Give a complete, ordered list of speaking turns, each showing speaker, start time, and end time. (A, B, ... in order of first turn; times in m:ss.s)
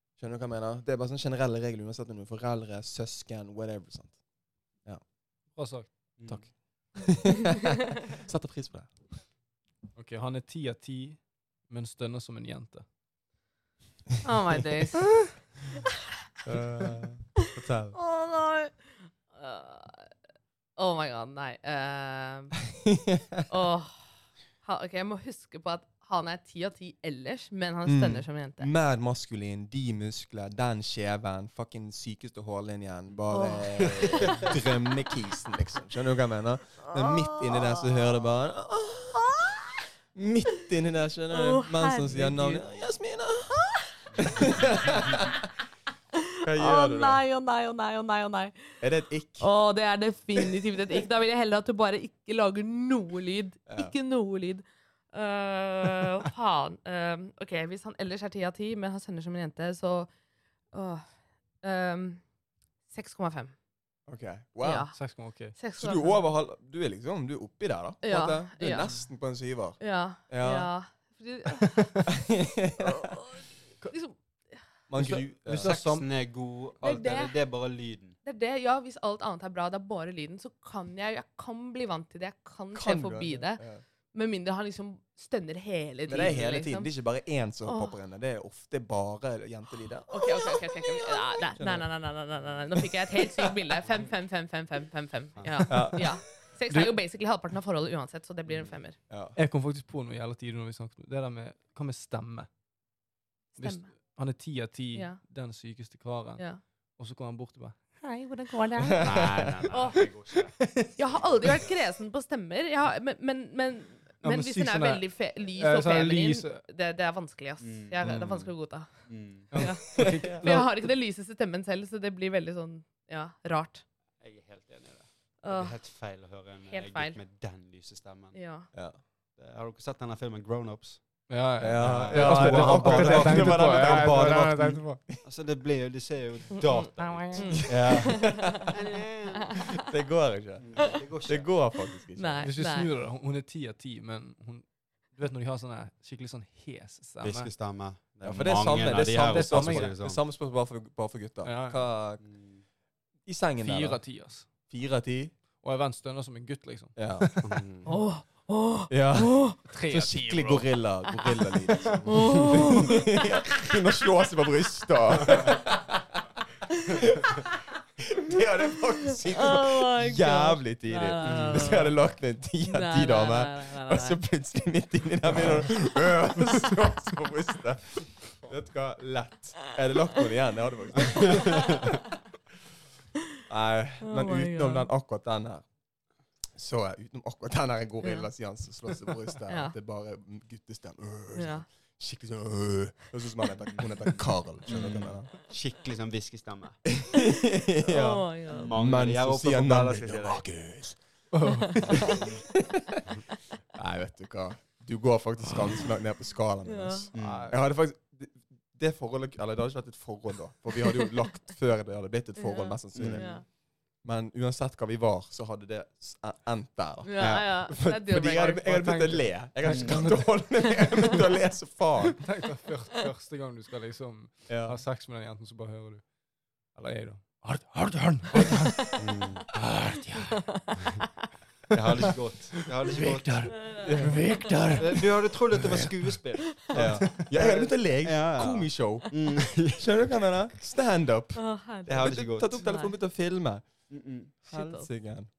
0:00.2-0:04.2 A
0:05.5-0:06.2 B
0:06.2-0:06.6 C
0:06.3-0:09.2 A
0:09.9-0:12.8 B
0:14.2-0:15.2 D
0:16.4-0:18.0 A
0:17.9-0:20.1 D
0:20.8-0:22.6 D
0:22.8-0:23.4 A
0:23.5-0:24.0 D
0:24.6-0:28.7 D
0:27.8-0:39.5 A
0:33.3-0:34.4 D
0:33.8-0:34.6 C
0:36.8-0:38.0 D
0:39.2-0:39.5 D
0:40.1-0:45.3 A
0:41.3-0:42.3 D
0:42.1-0:42.6 B
0:44.1-0:45.0 C
0:46.4-0:48.8 D
0:46.4-0:47.2 A
0:48.8-0:49.5 A
0:49.4-1:00.1 D
0:53.7-0:53.9 A
1:00.7-1:01.0 D
1:01.6-1:02.2 D
1:02.9-1:03.5 D
1:04.1-1:04.9 A
1:04.6-1:05.0 D
1:04.9-1:05.6 B
1:05.5-1:06.2 D
1:05.8-1:10.7 A
1:08.0-1:09.1 D
1:08.6-1:08.9 B
1:09.8-1:12.1 D
1:12.1-1:13.1 A
1:12.8-1:14.6 D
1:14.9-1:15.8 A
1:15.0-1:16.1 B
1:15.6-1:18.2 C
1:16.8-1:17.4 D
1:18.2-1:26.9 D
1:22.7-1:23.8 A
1:26.1-1:31.9 A
1:27.6-1:27.9 D
1:30.1-1:39.0 D
1:33.0-1:33.5 A
1:35.4-1:35.7 C
1:35.7-1:36.2 A
1:39.1-1:39.4 A
1:39.4-1:42.5 B
1:43.5-1:43.9 D
1:43.6-1:48.9 B
1:44.9-1:45.2 D
1:48.0-1:49.0 D
1:48.8-1:49.4 A
1:49.0-1:50.5 C
1:49.7-1:50.1 D
1:50.6-1:50.8 B
1:50.9-2:03.8 D
1:54.2-1:56.6 B
1:57.6-1:59.5 C
1:59.5-2:00.8 B
2:00.0-2:00.3 A
2:04.2-2:08.4 C
2:05.4-2:05.8 D
2:06.7-2:07.2 D
2:08.3-2:08.7 D
2:08.7-2:09.0 A
2:09.4-2:14.4 C
2:11.3-2:15.0 B
2:11.6-2:15.2 A
2:15.2-2:19.7 C
2:16.6-2:18.6 D
2:17.0-2:17.6 B
2:17.5-2:18.6 A
2:19.7-2:22.5 A
2:20.6-2:21.5 C
2:22.2-2:22.9 D
2:22.4-2:27.5 B
2:27.2-2:30.2 C
2:28.2-2:32.2 A
2:29.2-2:29.9 B
2:31.4-2:31.8 B
2:32.2-2:32.6 C
2:33.2-2:34.1 A
2:33.6-2:34.5 B
2:34.7-2:35.3 A
2:35.6-2:37.5 B
2:37.0-2:37.3 A
2:37.4-2:37.9 C
2:37.9-2:39.6 D
2:38.9-2:46.2 A
2:39.7-2:40.8 B
2:41.9-2:42.5 C
2:42.0-2:43.1 D
2:46.9-3:01.9 A
2:49.2-2:51.9 D
2:51.2-2:51.9 C
2:52.6-2:54.2 D
3:01.0-3:01.7 C
3:01.2-3:01.8 D
3:03.4-3:05.7 A
3:04.0-3:04.9 D
3:06.6-3:15.3 A
3:08.0-3:08.3 D
3:09.5-3:09.7 D
3:11.3-3:11.6 D
3:14.7-3:16.9 C
3:17.0-3:21.2 A
3:17.8-3:18.7 D
3:18.5-3:20.4 C
3:21.3-3:21.9 B
3:21.5-3:22.1 D
3:22.0-3:22.4 A
3:22.0-3:22.4 C
3:23.7-3:33.4 A
3:26.6-3:27.1 D
3:27.1-3:27.5 C
3:27.1-3:27.6 B
3:32.4-3:33.4 D
3:32.9-3:33.4 C
3:34.0-3:42.3 A
3:37.0-3:38.8 D
3:38.7-3:40.5 B
3:39.6-3:40.1 C
3:42.2-3:46.1 B
3:44.5-3:44.8 A
3:46.6-3:48.9 B
3:48.5-3:49.0 D
3:49.0-3:49.5 C
3:49.5-3:50.6 B
3:50.4-3:50.8 D
3:51.7-3:53.7 C
3:52.9-3:56.1 B
3:53.6-3:53.9 D
3:53.8-3:54.4 A
3:54.8-4:00.1 C
3:56.7-4:05.3 A
4:01.4-4:02.9 D
4:01.9-4:02.6 C
4:03.9-4:04.3 C
4:04.5-4:04.9 D